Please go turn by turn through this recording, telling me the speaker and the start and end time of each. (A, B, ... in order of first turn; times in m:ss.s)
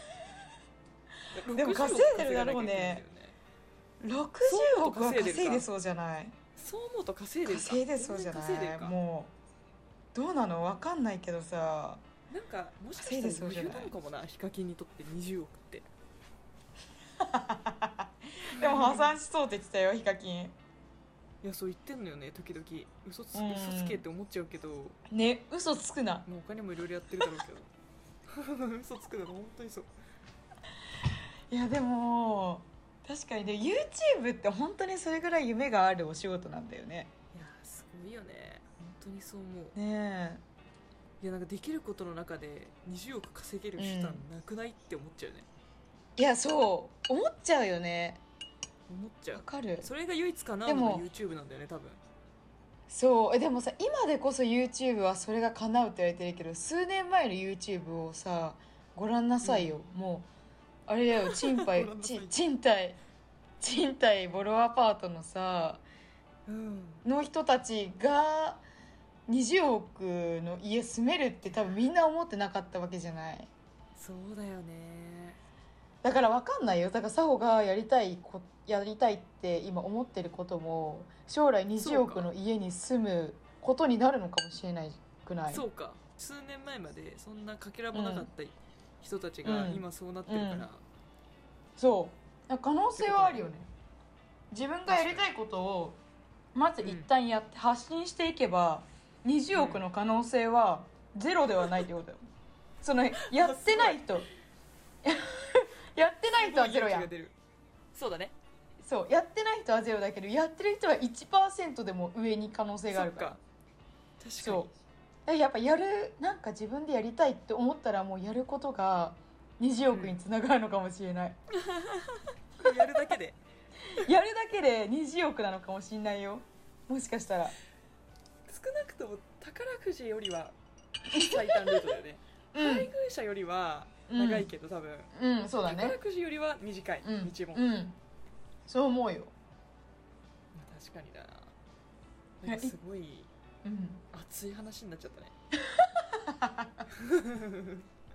0:01.3-0:03.4 A
0:01.5-0:03.0 B
0:04.0-0:06.3 B
0:04.4-0:05.7 A
0:06.6-0:09.0 A
0:07.4-0:09.3 B
0:10.1-0:12.0 B
0:12.3-0:15.8 A
0:13.0-0:13.9 B
0:17.2-0:20.6 B
0:18.4-0:19.1 A
0:21.4-0:25.0 A
0:23.3-0:24.0 B
0:25.1-0:26.2 B
0:26.3-0:27.7 A
0:28.3-0:29.9 A
0:31.5-0:37.1 B
0:37.3-0:39.8 A
0:39.8-0:40.4 B
0:41.2-0:45.5 A
0:43.8-0:44.2 B
0:46.2-0:48.2 B
0:48.9-0:52.0 A
0:49.3-0:49.9 B
0:50.6-0:51.1 B
0:52.9-1:00.3 B
0:59.4-0:59.8 A
1:00.9-1:03.0 B
1:01.2-1:02.4 A
1:03.6-1:05.8 B
1:06.5-1:07.0 A
1:07.0-1:08.6 B
1:09.3-1:13.5 B
1:14.0-1:15.4 A
1:16.0-1:25.6 B
1:21.8-1:22.3 A
1:25.5-1:30.8 A
1:27.9-1:28.3 B
1:29.4-1:30.7 B
1:31.8-1:33.7 B
1:33.0-1:33.5 A
1:34.5-1:36.0 B
1:34.9-1:35.3 A
1:36.6-1:42.2 B
1:36.8-1:37.1 A
1:39.5-1:39.8 A
1:42.8-1:44.3 B
1:43.2-1:44.1 A
1:45.0-1:47.1 B
1:46.3-1:47.4 A
1:47.9-1:48.4 A
1:48.8-1:53.4 B
1:52.9-1:53.4 A
1:54.2-1:54.7 A
1:54.4-1:54.7 B
1:55.3-2:01.4 B
1:59.9-2:00.2 A
2:01.6-2:03.4 A
2:03.9-2:07.6 B
2:08.5-2:10.5 A
2:11.1-2:15.1 A
2:11.1-2:11.9 B
2:12.5-2:12.9 B
2:14.1-2:14.5 B
2:15.1-2:16.0 B
2:15.6-2:17.7 A
2:17.0-2:18.0 B
2:18.7-2:19.3 B
2:20.6-2:21.5 A
2:22.4-2:23.3 A
2:22.5-2:22.7 B
2:23.6-2:24.0 B
2:24.1-2:25.3 A
2:25.7-2:26.8 B
2:27.0-2:27.9 A